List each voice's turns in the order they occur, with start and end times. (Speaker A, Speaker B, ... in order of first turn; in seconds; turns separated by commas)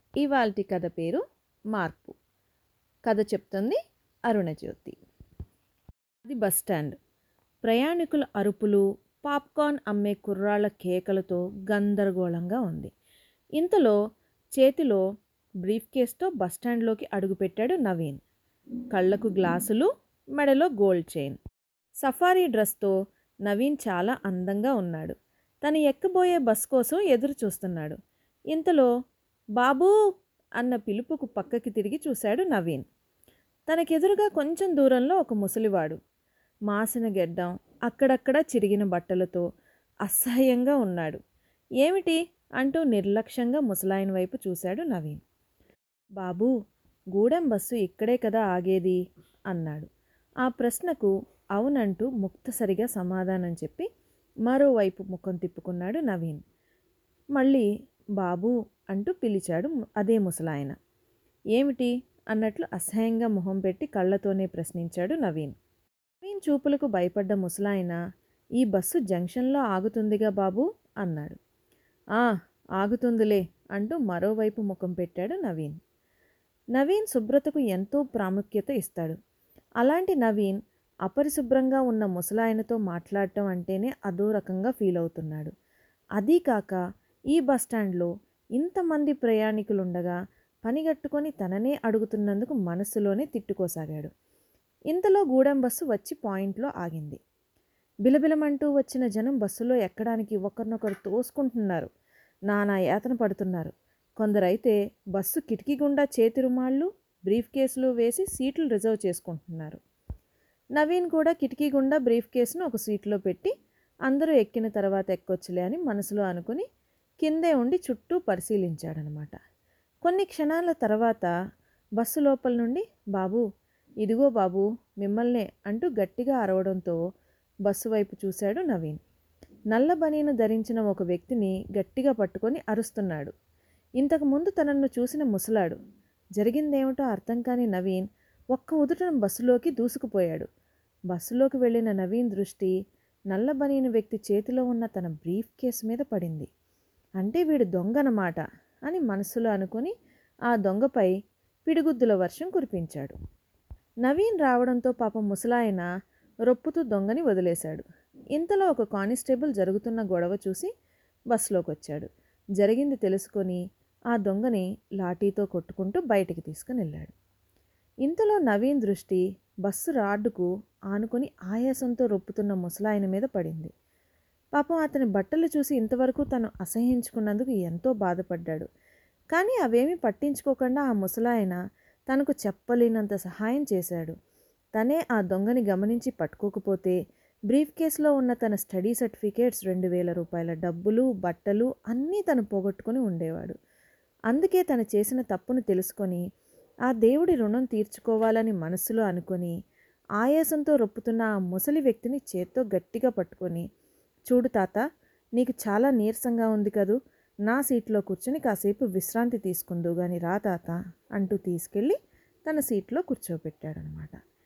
Speaker A: 0.2-2.1, Speaker A: 3.0-4.9, Speaker A: 6.2-7.0, Speaker A: 7.6-12.9, Speaker A: 13.6-14.0, Speaker A: 14.6-15.0, Speaker A: 15.6-18.2, Speaker A: 18.9-21.4, Speaker A: 22.0-22.9, Speaker A: 23.5-28.0, Speaker A: 28.5-28.9, Speaker A: 29.6-29.9, Speaker A: 30.6-32.9, Speaker A: 33.7-36.0, Speaker A: 36.7-39.4, Speaker A: 40.0-41.2, Speaker A: 41.8-45.2, Speaker A: 46.2-46.5, Speaker A: 47.1-49.0, Speaker A: 49.5-49.9, Speaker A: 50.4-53.9, Speaker A: 54.5-56.4, Speaker A: 57.4-60.8, Speaker A: 61.5-65.5, Speaker A: 66.2-68.0, Speaker A: 68.6-71.4, Speaker A: 72.2-75.8, Speaker A: 76.8-79.2, Speaker A: 79.8-85.5, Speaker A: 86.2-86.8, Speaker A: 87.3-94.1, Speaker A: 94.9-97.2, Speaker A: 98.0-101.9, Speaker A: 102.5-109.8, Speaker A: 110.8-113.5, Speaker A: 114.1-116.7, Speaker A: 117.2-119.3, Speaker A: 120.0-121.3, Speaker A: 122.0-123.4, Speaker A: 124.0-127.0, Speaker A: 127.7-129.0, Speaker A: 129.7-133.3, Speaker A: 134.0-135.8, Speaker A: 136.4-140.5, Speaker A: 141.1-142.7, Speaker A: 143.3-146.5, Speaker A: 147.2-149.9, Speaker A: 150.5-151.1, Speaker A: 151.7-153.2, Speaker A: 154.0-155.8, Speaker A: 156.5-160.7, Speaker A: 161.3-163.6, Speaker A: 164.1-167.1, Speaker A: 168.0-173.7, Speaker A: 174.6-178.7, Speaker A: 179.3-181.6, Speaker A: 182.1-184.1, Speaker A: 184.8-187.0, Speaker A: 187.5-193.6, Speaker A: 194.3-196.2, Speaker A: 196.9-199.5, Speaker A: 200.2-203.7, Speaker A: 204.3-204.8, Speaker A: 205.4-214.2